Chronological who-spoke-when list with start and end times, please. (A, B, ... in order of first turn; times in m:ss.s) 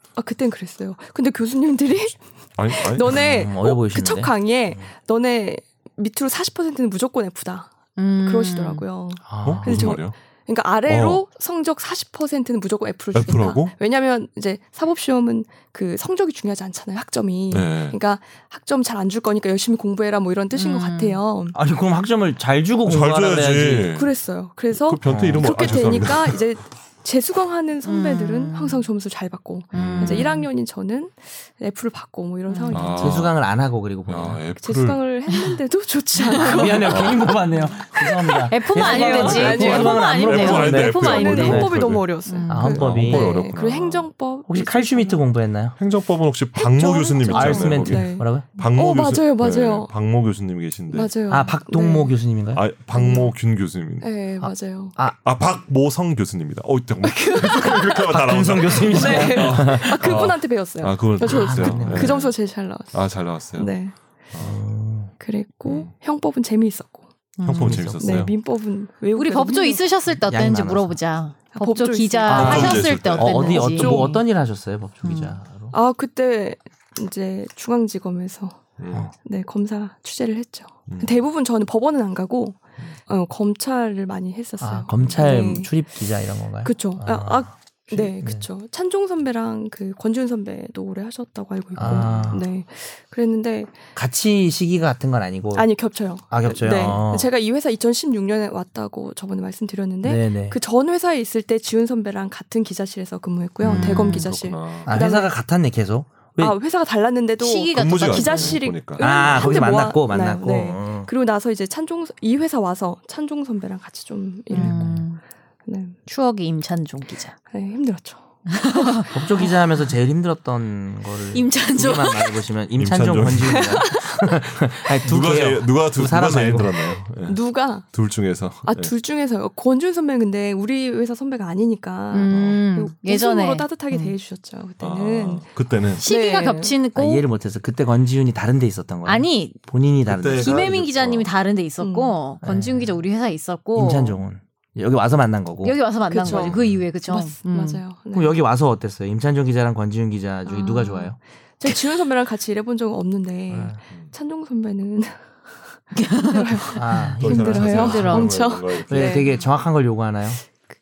0:00.2-0:21.5 A
0:02.6-0:03.2 B
0:03.1-0:04.8 C
0:08.0-0:08.8 D
0:09.3-0:09.9 C
0:09.4-0:10.2 B
0:10.9-0:11.2 B
0:13.1-0:13.7 B
0:17.5-0:18.0 B
0:20.5-0:21.2 D
0:21.5-0:23.9 C
0:22.8-0:24.1 B
0:23.9-0:33.2 A
0:24.7-0:26.5 B
0:25.0-0:25.6 C
0:27.8-0:28.8 D
0:29.7-0:30.4 B
0:29.7-0:30.5 D
0:32.5-0:33.0 D
0:32.7-0:33.4 B
0:33.0-0:34.4 C
0:34.1-0:35.0 B
0:34.6-0:37.3 A
0:36.2-0:36.8 D
0:36.3-0:41.7 C
0:36.8-0:37.4 B
0:38.5-0:41.7 D
0:38.7-0:45.2 A
0:39.0-0:42.1 B
0:42.3-0:42.8 D
0:42.5-0:43.3 C
0:42.6-0:44.1 B
0:44.5-0:45.8 C
0:45.8-0:51.1 B
0:46.5-0:49.9 A
0:47.3-0:48.5 C
0:50.9-0:52.1 A
0:51.3-0:52.6 C
0:52.5-0:54.1 B
0:52.9-0:53.3 A
0:54.0-0:55.0 A
0:54.4-0:55.2 C
0:55.2-1:02.3 B
0:57.0-0:58.0 A
0:57.9-1:00.2 C
0:58.9-1:03.9 A
1:01.2-1:02.2 C
1:02.9-1:03.7 B
1:04.3-1:04.6 B
1:04.4-1:05.1 C
1:05.2-1:07.0 A
1:05.6-1:05.9 B
1:07.4-1:07.8 D
1:07.4-1:08.3 B
1:07.5-1:08.3 C
1:08.0-1:09.8 A
1:09.1-1:14.2 D
1:10.1-1:11.0 C
1:11.5-1:14.2 A
1:12.3-1:15.8 C
1:12.3-1:13.8 B
1:15.0-1:15.4 D
1:15.7-1:18.6 A
1:18.8-1:19.1 B
1:19.2-1:25.7 A
1:20.9-1:21.2 B
1:24.6-1:28.5 C
1:24.9-1:25.2 B
1:26.6-1:33.7 A
1:31.8-1:32.4 C
1:31.8-1:32.3 B
1:33.9-1:35.7 C
1:35.5-1:45.3 A
1:36.3-1:37.3 C
1:40.0-1:40.6 C
1:43.6-1:45.0 B
1:43.6-1:44.3 D
1:44.9-1:46.6 C
1:46.4-1:55.0 A
1:47.4-1:48.6 D
1:47.7-1:49.5 B
1:49.0-1:51.1 C
1:54.5-1:55.2 D
1:54.5-1:55.0 C
1:55.6-1:56.0 A
1:56.1-1:57.3 D
1:57.5-1:59.1 A
1:58.5-1:59.1 D
1:59.1-2:07.0 C
2:01.3-2:02.4 D
2:02.8-2:04.0 B
2:03.5-2:04.2 A
2:04.6-2:08.9 B
2:07.2-2:07.9 A
2:08.6-2:16.7 A
2:12.1-2:14.1 D
2:12.3-2:12.6 B
2:14.8-2:16.0 B
2:16.0-2:17.2 D
2:16.9-2:20.6 C
2:19.0-2:19.6 D
2:20.0-2:21.3 B
2:20.4-2:24.2 D
2:21.8-2:22.1 A
2:22.4-2:22.9 C
2:23.7-2:25.8 C
2:25.6-2:27.8 D
2:26.1-2:28.4 A
2:28.1-2:31.2 C
2:30.5-2:39.4 A
2:33.5-2:33.8 C
2:36.0-2:36.8 D
2:36.7-2:40.4 C
2:37.2-2:39.2 B